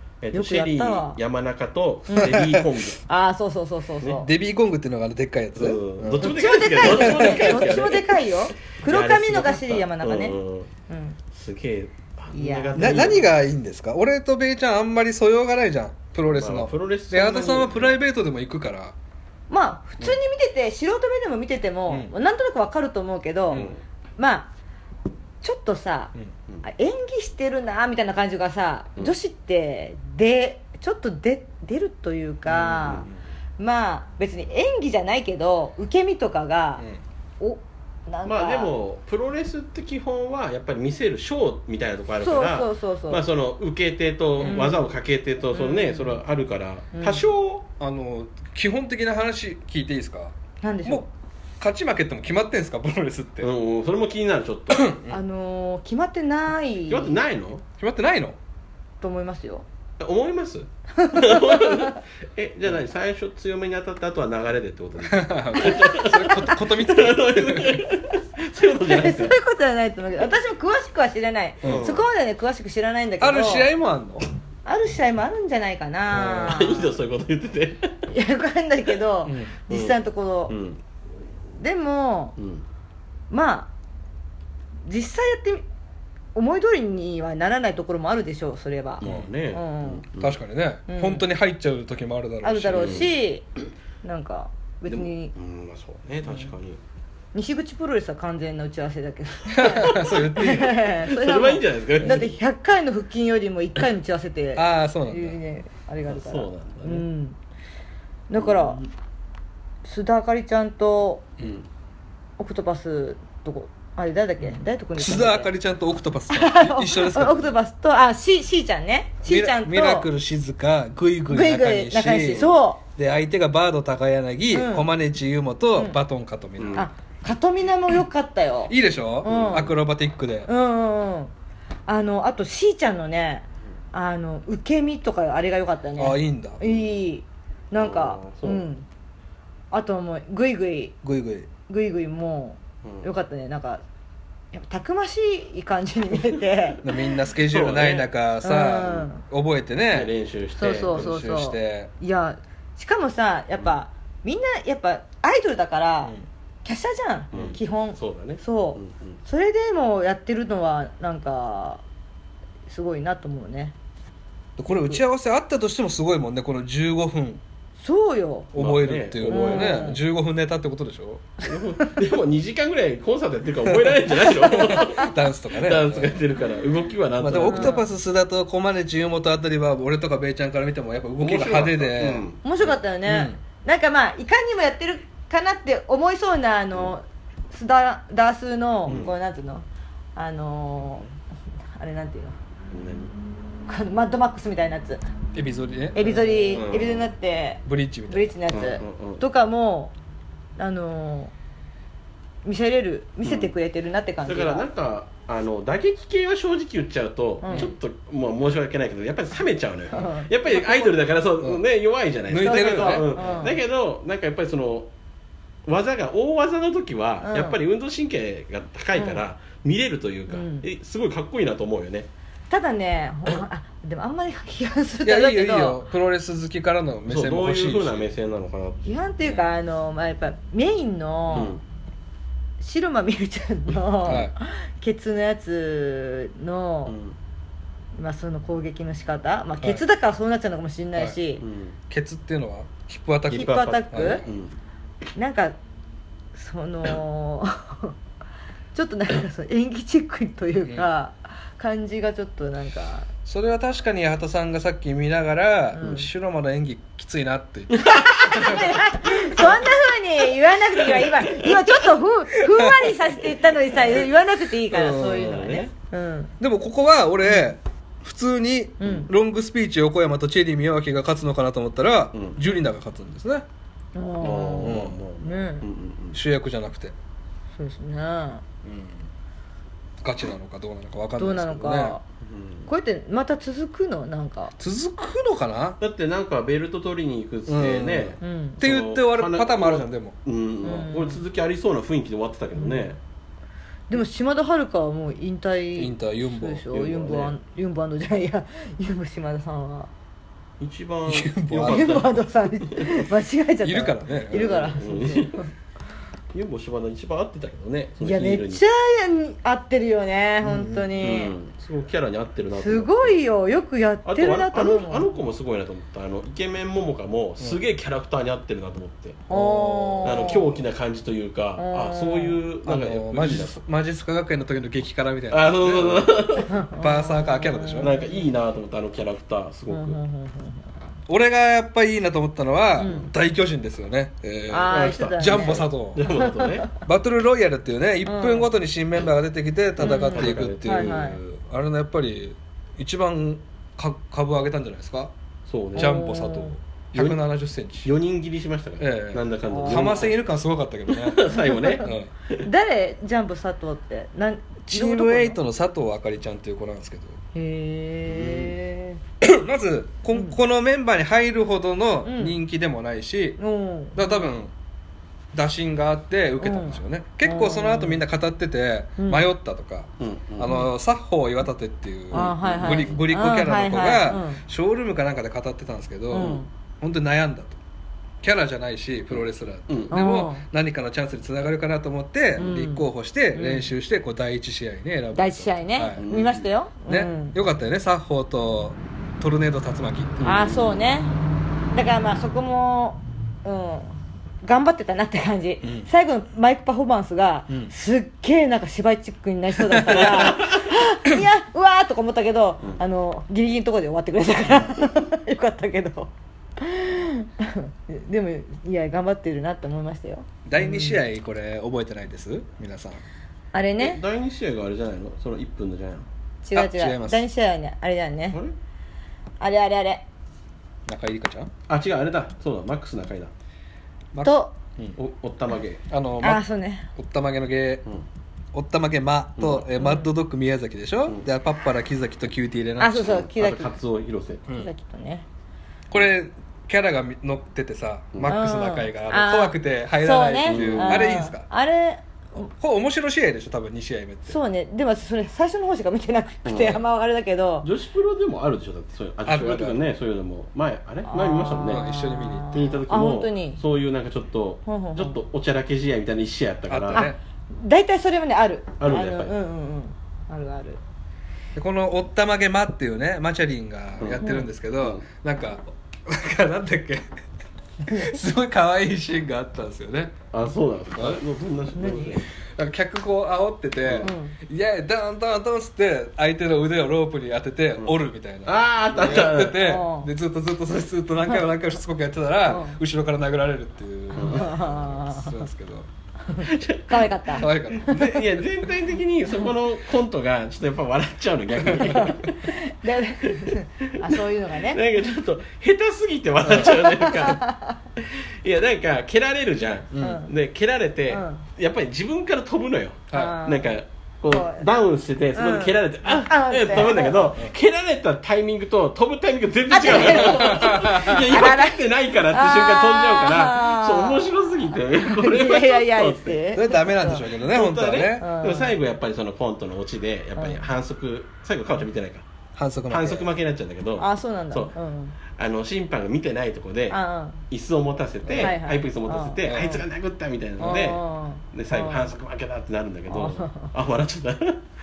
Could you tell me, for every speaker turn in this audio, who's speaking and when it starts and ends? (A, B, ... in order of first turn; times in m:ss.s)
0:00.2-0:03.0 A
0:00.3-0:01.2 B
0:02.1-0:02.4 B
0:02.2-0:02.7 C
0:03.1-0:04.3 B
0:04.2-0:07.8 C
0:05.6-0:10.7 A
0:06.2-0:10.4 B
0:10.9-0:11.2 B
0:11.3-0:13.4 A
0:12.3-0:13.1 B
0:12.8-0:19.0 C
0:16.3-0:18.0 A
0:19.5-0:23.6 B
0:23.5-0:23.8 C
0:23.5-0:23.8 A
0:24.2-0:24.5 B
0:25.4-0:33.1 B
0:32.5-0:33.2 C
0:32.6-0:33.1 A
0:33.6-0:36.8 B
0:37.4-0:38.8 B
0:38.3-0:47.7 A
0:42.2-0:43.2 B
0:44.4-0:44.7 C
0:44.4-0:44.8 B
0:45.5-0:46.2 B
0:46.9-0:47.2 B
0:47.8-0:51.0 C
0:50.6-0:51.1 B
0:51.6-0:53.5 C
0:53.4-0:54.9 A
0:54.7-0:55.2 C
0:55.1-0:57.2 B
0:56.9-0:57.6 A
0:57.8-0:58.4 C
0:59.0-0:59.6 B
1:00.0-1:09.4 A
1:01.0-1:02.0 B
1:05.0-1:07.8 C
1:05.6-1:06.5 B
1:08.8-1:13.7 B
1:11.6-1:12.0 C
1:11.6-1:12.0 A
1:13.2-1:14.2 C
1:14.6-1:17.0 B
1:16.1-1:18.0 A
1:16.1-1:16.5 C
1:18.1-1:20.5 B
1:19.2-1:19.5 C
1:19.7-1:20.0 A
1:20.5-1:20.8 A
1:21.6-1:22.4 B
1:22.4-1:22.6 A
1:23.3-1:23.7 B
1:24.9-1:25.6 B
1:26.4-1:30.0 B
1:29.0-1:30.4 A
1:29.0-1:29.3 C
1:30.2-1:33.1 C
1:30.9-1:31.2 B
1:32.4-1:33.4 B
1:32.8-1:33.1 A
1:34.0-1:35.3 B
1:34.9-1:36.8 A
1:37.3-1:47.4 B
1:39.5-1:40.8 C
1:39.7-1:42.3 A
1:44.6-1:45.4 C
1:46.1-1:47.1 A
1:48.3-1:48.8 B
1:48.4-1:48.9 A
1:49.8-1:51.3 B
1:51.4-1:51.7 A
1:52.4-1:55.5 B
1:54.4-1:57.5 C
1:56.3-2:00.1 B
1:59.2-2:06.9 C
2:01.3-2:02.8 B
2:04.5-2:04.9 B
2:06.6-2:06.9 A
2:06.7-2:09.7 B
2:08.7-2:10.5 C
2:09.2-2:09.8 A
2:10.5-2:11.3 B
2:11.9-2:18.9 B
2:16.0-2:16.6 C
2:17.8-2:18.7 A
2:19.7-2:21.0 B
2:21.0-2:21.5 C
2:21.7-2:23.8 B
2:22.8-2:23.1 A
2:24.5-2:26.8 B
2:26.8-2:30.1 C
2:27.4-2:28.1 A
2:28.4-2:29.2 B
2:29.9-2:31.1 A
2:30.6-2:36.1 B
2:30.8-2:31.9 C
2:36.6-2:41.8 B
2:37.3-2:39.2 A
2:42.7-2:43.8 B
2:44.6-2:47.4 C
2:47.8-2:48.5 B
2:48.5-2:51.3 C
2:48.6-2:49.9 A
2:49.3-2:50.0 B
2:51.4-2:57.8 A
2:53.7-2:56.2 C
2:57.2-3:02.3 C
2:57.4-2:57.9 B
3:01.2-3:02.4 A
3:02.4-3:09.6 B
3:03.1-3:03.4 C
3:08.9-3:09.1 A
3:10.2-3:11.1 B
3:11.7-3:12.4 B
3:12.7-3:13.1 A
3:13.7-3:15.0 B
3:15.4-3:16.6 C
3:16.0-3:19.9 B
3:16.0-3:17.1 A
3:17.7-3:18.3 C
3:18.5-3:19.2 A
3:20.6-3:21.3 B
3:22.4-3:24.7 B
3:23.2-3:23.5 A
3:24.2-3:34.9 A
3:27.4-3:27.7 B
3:29.9-3:31.1 B
3:32.3-3:33.2 C
3:32.4-3:33.6 B
3:35.7-3:42.1 A
3:37.2-3:37.6 B
3:38.9-3:39.2 B
3:40.3-3:40.7 B
3:42.5-3:45.8 B
3:45.0-3:48.1 C
3:47.1-3:48.9 A
3:48.8-3:51.6 B
3:51.3-3:51.6 A
3:52.6-3:57.0 B
3:54.0-3:54.3 C
3:56.9-3:57.2 A
3:58.0-4:01.4 B
4:01.4-4:01.8 A
4:01.9-4:04.3 C
4:03.3-4:04.2 B
4:03.3-4:04.6 A
4:05.2-4:05.6 B
4:06.4-4:08.0 B
4:08.8-4:13.1 B
4:13.2-4:18.7 C
4:15.7-4:16.1 B
4:17.8-4:18.6 A
4:18.0-4:26.3 B
4:19.4-4:19.6 C
4:22.5-4:23.0 C
4:23.7-4:24.0 A
4:24.7-4:25.4 C
4:24.9-4:25.7 A
4:26.4-4:33.5 C
4:28.8-4:29.1 B
4:28.8-4:29.1 A
4:32.1-4:32.4 A
4:34.0-4:35.7 B
4:34.2-4:36.2 A
4:34.6-4:35.0 C
4:36.1-4:37.0 C
4:37.6-4:38.4 B
4:38.6-4:39.1 C
4:40.0-4:42.0 C
4:41.2-4:42.0 B
4:42.2-4:42.7 A
4:42.7-4:44.6 B
4:44.6-4:45.8 C
4:45.8-4:53.0 A
4:47.5-4:50.2 C
4:48.2-4:48.6 B
4:50.6-4:51.2 B
4:52.6-4:52.9 B
4:53.9-4:59.9 B
4:55.8-4:56.6 C
4:56.7-4:57.4 A
5:00.6-5:02.8 A
5:01.1-5:02.2 C
5:01.7-5:05.5 B
5:03.6-5:04.7 C
5:04.3-5:05.4 A
5:06.3-5:08.6 A
5:08.0-5:11.3 B
5:10.4-5:10.9 C
5:11.0-5:13.2 A
5:12.6-5:15.1 B
5:14.0-5:19.3 A
5:19.3-5:20.6 B
5:19.3-5:20.4 C
5:20.0-5:23.6 A
5:21.6-5:22.4 B
5:22.6-5:26.2 C
5:25.3-5:26.5 A
5:26.5-5:28.3 B
5:26.7-5:28.0 C
5:27.8-5:30.0 A
5:29.7-5:30.7 B
5:31.1-5:36.1 C
5:32.8-5:33.1 B
5:32.8-5:33.1 A
5:34.5-5:36.7 B
5:34.7-5:36.7 A
5:36.8-5:45.1 C
5:38.0-5:38.5 B
5:39.8-5:41.1 A
5:39.8-5:41.2 B
5:45.5-5:46.0 A
5:45.8-5:46.6 B
5:45.8-5:47.9 C
5:46.9-5:47.2 A
5:47.8-5:50.2 A
5:48.8-5:51.3 C
5:49.5-5:50.1 B
5:50.9-5:52.5 A
5:51.3-5:55.4 B
5:51.8-5:52.1 C
5:54.7-5:57.2 C
5:57.3-5:59.0 B
5:58.1-5:58.6 A
5:59.2-6:03.4 C
6:00.1-6:00.4 B
6:02.0-6:02.4 B
6:03.4-6:04.3 B
6:04.0-6:04.5 C
6:05.3-6:17.6 C
6:06.4-6:08.0 B
6:09.0-6:09.2 B
6:10.0-6:10.7 A
6:12.1-6:13.0 A
6:12.1-6:14.4 B
6:16.1-6:16.5 B
6:18.2-6:26.0 C
6:19.1-6:19.9 A
6:19.9-6:20.4 B
6:22.4-6:23.7 B
6:25.1-6:27.4 B
6:26.0-6:26.5 A
6:26.9-6:30.3 C
6:30.2-6:30.8 A
6:30.2-6:31.1 B
6:31.7-6:51.0 B
6:35.6-6:35.9 C
6:39.7-6:40.3 C
6:50.4-6:53.0 C
6:53.5-6:54.0 B
6:53.8-6:56.1 A
6:56.4-6:58.4 B
6:56.5-6:57.2 C
6:59.4-7:00.1 B
7:00.9-7:01.5 C
7:01.7-7:03.3 A
7:04.1-7:05.0 C
7:04.2-7:04.5 B
7:05.0-7:05.8 A
7:05.9-7:07.9 C
7:06.2-7:06.9 B
7:08.5-7:13.2 C
7:09.4-7:09.7 A
7:09.8-7:10.1 B
7:12.8-7:13.7 B
7:13.0-7:14.5 A
7:14.5-7:15.3 B
7:15.9-7:21.4 C
7:18.2-7:22.5 B
7:20.5-7:21.1 A
7:22.5-7:24.4 C
7:24.3-7:27.7 B
7:26.5-7:26.8 A
7:27.6-7:31.8 A
7:29.3-7:29.8 C
7:31.1-7:33.6 B
7:31.7-7:32.6 C
7:32.5-7:37.1 A
7:34.7-7:35.2 B
7:36.7-7:37.2 C
7:36.9-7:40.8 B
7:38.8-7:39.4 A
7:41.6-7:47.1 C
7:44.2-7:44.5 B
7:47.9-7:50.2 C
7:50.3-7:52.2 A
7:51.8-7:52.2 B
7:52.6-8:05.9 C
7:53.8-7:54.1 A
7:54.0-7:54.4 B
7:58.5-7:59.6 A
7:59.5-8:00.1 B
8:02.5-8:02.8 B
8:04.2-8:04.5 A
8:04.2-8:05.4 B
8:06.3-8:08.0 B
8:06.4-8:12.6 A
8:07.4-8:08.4 C
8:11.7-8:12.0 C
8:11.7-8:14.8 B
8:13.2-8:17.5 A
8:16.4-8:16.8 C
8:16.6-8:17.8 B
8:18.0-8:36.4 A
8:19.9-8:20.3 C
8:20.0-8:20.3 B
8:21.1-8:21.4 B
8:23.1-8:23.4 C
8:23.1-8:23.7 B
8:24.3-8:24.7 B
8:25.4-8:27.3 B
8:29.7-8:34.4 B
8:30.1-8:31.3 C
8:34.9-8:37.2 B
8:36.5-8:38.3 C
8:37.3-8:42.2 A
8:38.2-8:38.7 B
8:40.4-8:40.6 B
8:42.6-8:43.3 C
8:42.9-8:44.7 A
8:44.0-8:45.2 B
8:45.3-8:54.6 A
8:46.9-8:47.4 B
8:48.3-8:48.6 C
8:48.4-8:49.8 B
8:49.4-8:49.8 C
8:50.6-8:52.1 B
8:53.1-8:53.7 B